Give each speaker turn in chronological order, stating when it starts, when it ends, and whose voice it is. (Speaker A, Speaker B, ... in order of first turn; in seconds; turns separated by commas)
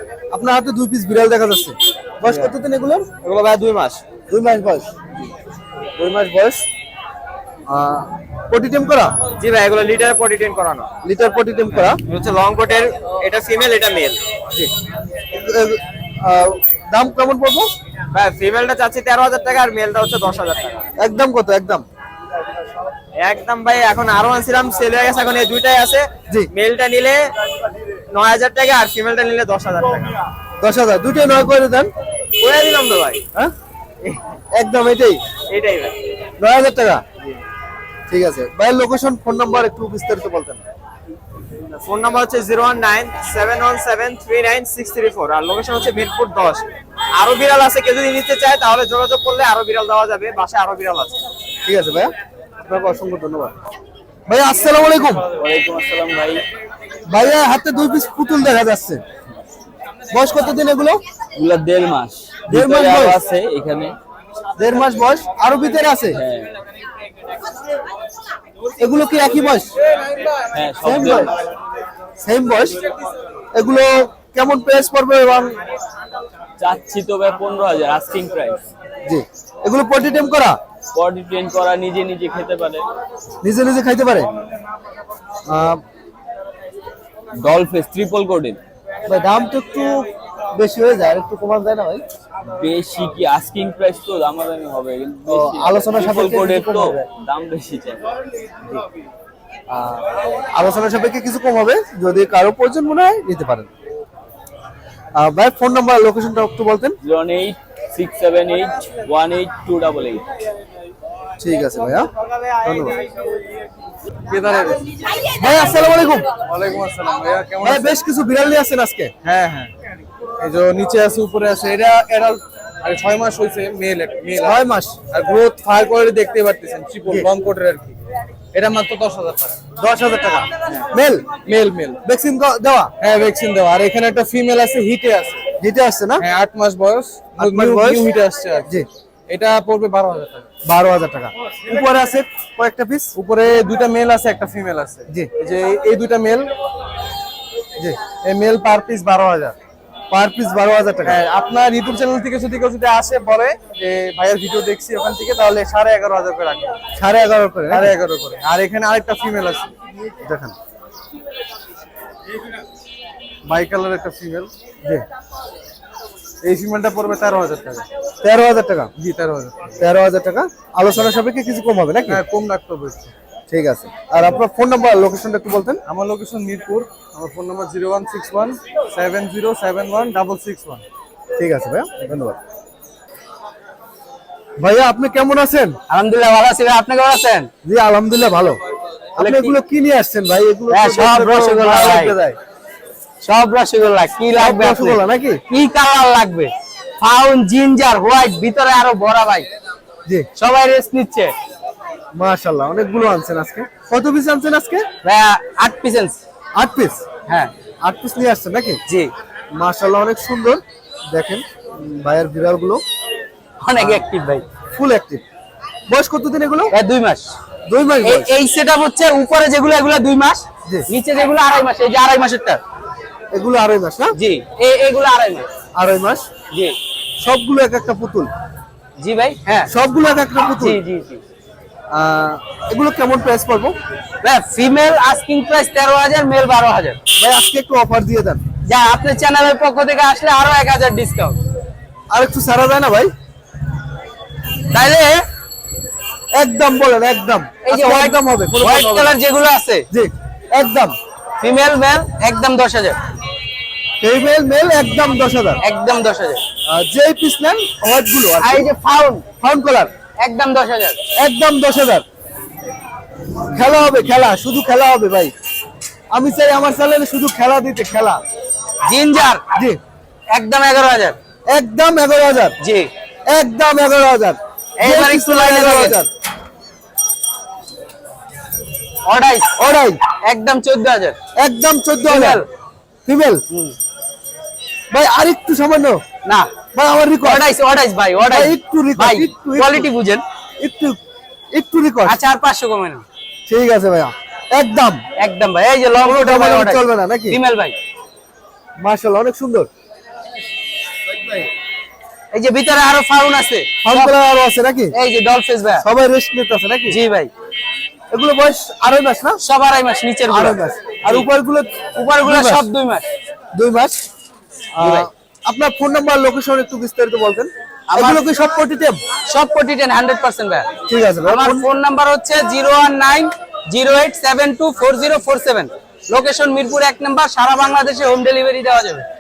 Speaker A: 0.3-3.1, Speaker B: 3.2-4.0, Speaker A: 4.3-4.9, Speaker A: 6.0-6.7, Speaker A: 7.7-9.2, Speaker B: 9.4-10.9, Speaker A: 11.0-12.0, Speaker B: 11.9-14.2, Speaker A: 15.3-17.7, Speaker B: 18.1-20.8, Speaker A: 21.0-21.8, Speaker B: 23.2-27.2, Speaker B: 28.1-30.1, Speaker A: 30.6-31.9, Speaker B: 32.4-33.2, Speaker A: 34.5-35.2, Speaker B: 35.5-36.0, Speaker A: 36.4-37.0, Speaker A: 38.1-40.6, Speaker B: 41.8-46.6, Speaker B: 47.2-51.2, Speaker A: 51.6-53.5, Speaker A: 54.3-55.2, Speaker C: 55.4-56.4, Speaker A: 57.1-59.0, Speaker A: 60.1-61.0, Speaker C: 61.4-64.0, Speaker A: 62.5-63.2, Speaker A: 64.6-66.2, Speaker C: 66.1-66.5, Speaker A: 68.8-69.7, Speaker C: 70.5-71.4, Speaker A: 70.8-71.3, Speaker A: 72.2-72.8, Speaker A: 73.5-75.6, Speaker C: 76.6-78.6, Speaker A: 79.0-80.6, Speaker C: 80.9-82.8, Speaker A: 83.4-84.3, Speaker A: 85.5-85.8, Speaker C: 87.4-88.6, Speaker A: 89.1-92.0, Speaker C: 92.5-98.0, Speaker A: 95.3-97.0, Speaker A: 99.7-103.7, Speaker A: 105.2-107.0, Speaker C: 107.0-110.2, Speaker A: 111.4-112.1, Speaker A: 112.6-112.9, Speaker D: 114.3-114.9, Speaker A: 115.3-116.3, Speaker D: 116.4-118.0, Speaker A: 117.6-119.1, Speaker D: 119.2-119.7, Speaker D: 120.4-124.6, Speaker A: 124.4-125.0, Speaker D: 125.1-128.0, Speaker D: 128.5-129.6, Speaker A: 129.8-131.3, Speaker D: 131.4-132.0, Speaker A: 132.0-132.9, Speaker D: 133.0-135.4, Speaker A: 135.6-136.2, Speaker D: 136.2-138.7, Speaker A: 137.4-138.1, Speaker D: 139.3-140.5, Speaker A: 140.7-143.1, Speaker D: 143.2-146.5, Speaker D: 148.1-149.6, Speaker A: 150.1-151.2, Speaker D: 151.1-156.8, Speaker A: 157.0-157.9, Speaker D: 157.7-159.7, Speaker A: 160.2-160.6, Speaker D: 163.5-164.5, Speaker D: 166.4-167.8, Speaker A: 168.2-168.9, Speaker D: 169.0-169.7, Speaker A: 169.8-172.2, Speaker D: 172.1-173.1, Speaker A: 173.5-175.8, Speaker D: 175.9-180.8, Speaker A: 181.4-182.4, Speaker A: 184.6-185.8, Speaker E: 185.9-187.5, Speaker A: 187.6-188.6, Speaker A: 189.2-192.4, Speaker E: 189.2-189.5, Speaker E: 190.7-192.2, Speaker E: 193.2-195.0, Speaker A: 194.3-195.4, Speaker E: 195.5-199.5, Speaker E: 200.4-201.3, Speaker A: 202.2-204.8, Speaker E: 205.0-206.2, Speaker A: 206.6-207.0, Speaker A: 207.8-208.8, Speaker A: 209.6-212.8, Speaker E: 213.6-214.4, Speaker A: 213.8-214.0, Speaker A: 214.8-215.2, Speaker A: 215.9-216.7, Speaker E: 216.7-217.3, Speaker A: 217.7-218.3, Speaker E: 218.0-222.6, Speaker A: 223.3-224.2, Speaker E: 224.2-225.5, Speaker A: 225.8-226.3, Speaker E: 226.5-226.8, Speaker A: 227.2-228.3, Speaker E: 229.0-229.7, Speaker A: 229.7-230.8, Speaker E: 230.6-231.2, Speaker A: 231.9-233.8, Speaker E: 234.2-237.0, Speaker A: 237.2-238.4, Speaker E: 238.7-241.4, Speaker A: 242.1-243.1, Speaker E: 244.7-245.2, Speaker A: 246.3-249.2, Speaker E: 247.7-249.8, Speaker A: 249.9-250.9, Speaker E: 251.4-253.0, Speaker A: 254.0-255.6, Speaker E: 255.6-256.4, Speaker A: 256.7-258.7, Speaker E: 258.4-259.3, Speaker A: 259.4-259.9, Speaker E: 260.2-261.0, Speaker A: 261.2-262.1, Speaker A: 263.5-265.3, Speaker A: 266.1-268.2, Speaker E: 268.8-269.4, Speaker A: 269.6-269.8, Speaker E: 270.3-271.2, Speaker A: 271.5-272.6, Speaker E: 272.6-272.9, Speaker A: 273.3-276.1, Speaker E: 274.8-276.0, Speaker E: 279.1-279.5, Speaker A: 279.6-280.0, Speaker E: 280.2-281.2, Speaker A: 281.4-282.4, Speaker E: 282.1-282.4, Speaker A: 283.1-283.4, Speaker A: 284.9-286.0, Speaker E: 286.2-286.5, Speaker A: 286.7-287.5, Speaker E: 287.2-290.2, Speaker A: 288.3-289.9, Speaker A: 290.6-291.0, Speaker A: 291.5-292.2, Speaker E: 292.1-293.1, Speaker A: 293.5-295.0, Speaker E: 295.2-297.8, Speaker A: 296.0-297.4, Speaker A: 298.8-299.7, Speaker E: 302.3-304.1, Speaker A: 303.8-304.9, Speaker E: 304.9-305.9, Speaker A: 305.8-307.0, Speaker E: 306.9-307.3, Speaker A: 308.1-309.4, Speaker E: 309.4-311.3, Speaker A: 310.3-312.7, Speaker E: 312.0-313.1, Speaker A: 313.5-314.1, Speaker A: 314.8-319.0, Speaker E: 314.8-315.1, Speaker E: 317.9-318.3, Speaker E: 319.3-320.7, Speaker A: 320.9-321.7, Speaker E: 321.2-329.1